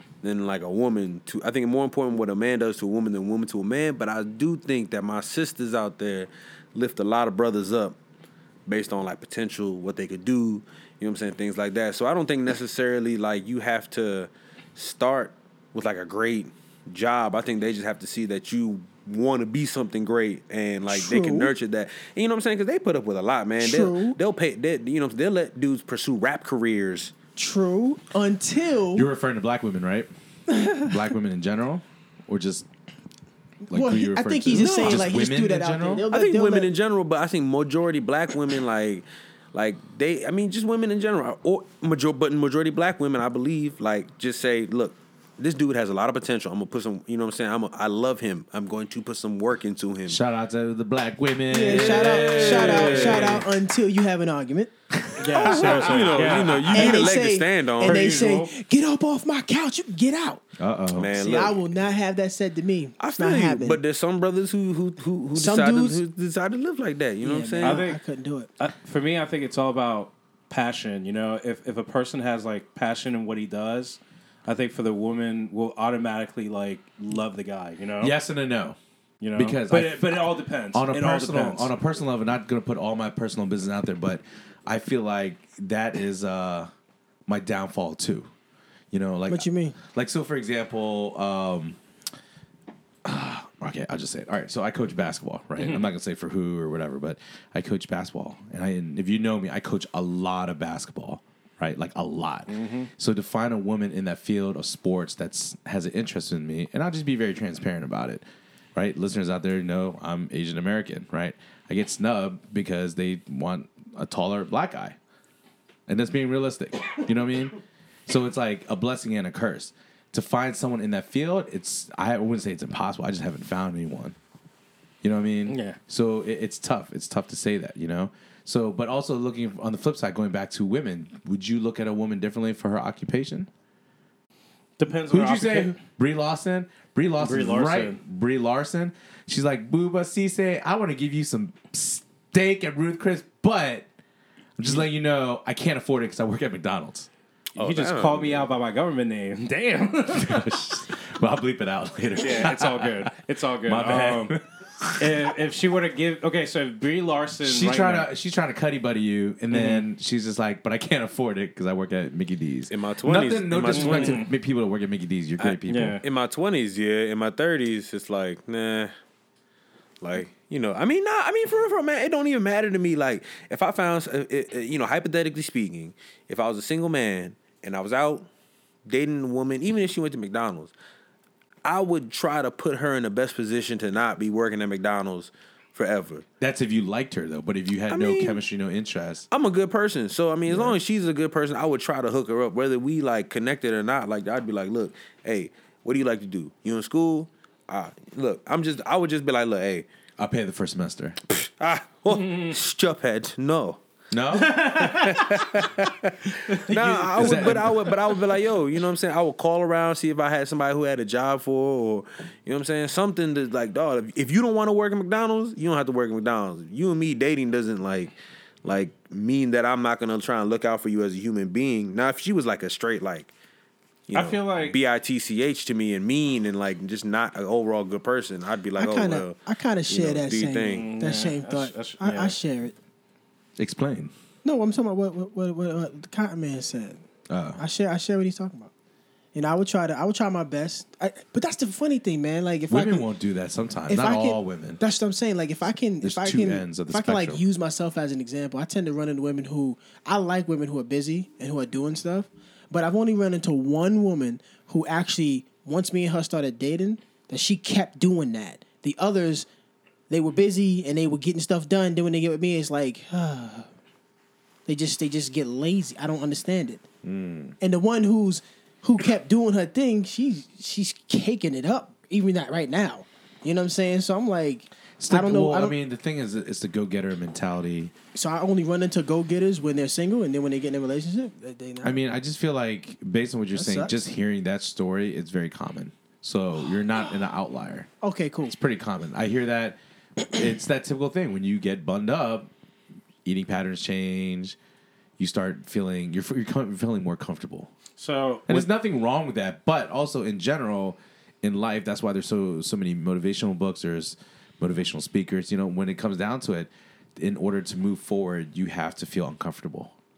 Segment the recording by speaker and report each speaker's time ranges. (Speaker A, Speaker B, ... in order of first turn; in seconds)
Speaker A: 0.2-8.0, 8.7-27.1, 34.5-35.1, 36.1-50.2, 51.7-53.4, 55.3-58.2, 60.9-61.6, 63.0-67.8, 147.6-148.5, 162.7-164.2, 165.4-168.9, 170.0-178.3, 178.9-180.7, 181.6-186.3, 187.9-188.4, 189.3-199.9, 201.3-203.8, 204.8-223.3, 224.1-229.4, 229.9-230.9
Speaker B: 20.9-21.6, 23.6-24.2, 27.4-29.1, 30.5-30.9, 33.7-36.7, 51.5-54.7, 56.2-60.4, 61.1-63.8, 65.3-66.0, 67.2-68.5, 89.3-89.8, 228.8-232.7, 234.4-237.0, 237.6-238.7, 239.3-243.1, 243.9-259.5, 260.1-263.7, 264.7-266.8, 267.6-275.8, 278.1-282.0, 283.6-283.9, 288.0-288.6
Speaker C: 28.9-32.7, 33.7-36.0, 50.1-53.4, 54.9-56.6, 60.6-61.4, 78.0-78.8, 79.3-86.7, 87.3-88.3, 88.9-91.8, 93.0-108.2, 108.8-115.0, 115.9-117.6, 118.1-124.2, 125.0-133.5, 135.1-143.9, 144.6-147.1, 150.1-153.1, 153.7-155.2, 157.4-166.0, 186.4-189.3, 190.5-190.8, 200.2-201.2, 204.1-204.6, 207.2-207.9, 233.6-234.1, 237.3-237.6, 242.7-244.8, 246.0-247.4, 267.0-267.6, 275.0-277.9, 281.8-287.9, 288.5-292.5, 293.2-294.6, 295.2-297.7, 298.5-309.9
Speaker D: 52.0-53.4, 55.2-57.2, 57.8-58.5, 67.6-68.0, 68.6-78.2, 79.2-81.7, 95.6-95.9, 102.5-102.9, 125.5-125.8, 134.8-135.8, 137.2-138.0, 147.6-150.5, 152.2-154.4, 155.0-158.1, 159.5-159.9, 163.7-164.3, 165.7-166.0, 202.1-202.6, 204.3-205.7, 206.5-208.2, 224.1-224.8, 230.7-232.4, 298.0-298.7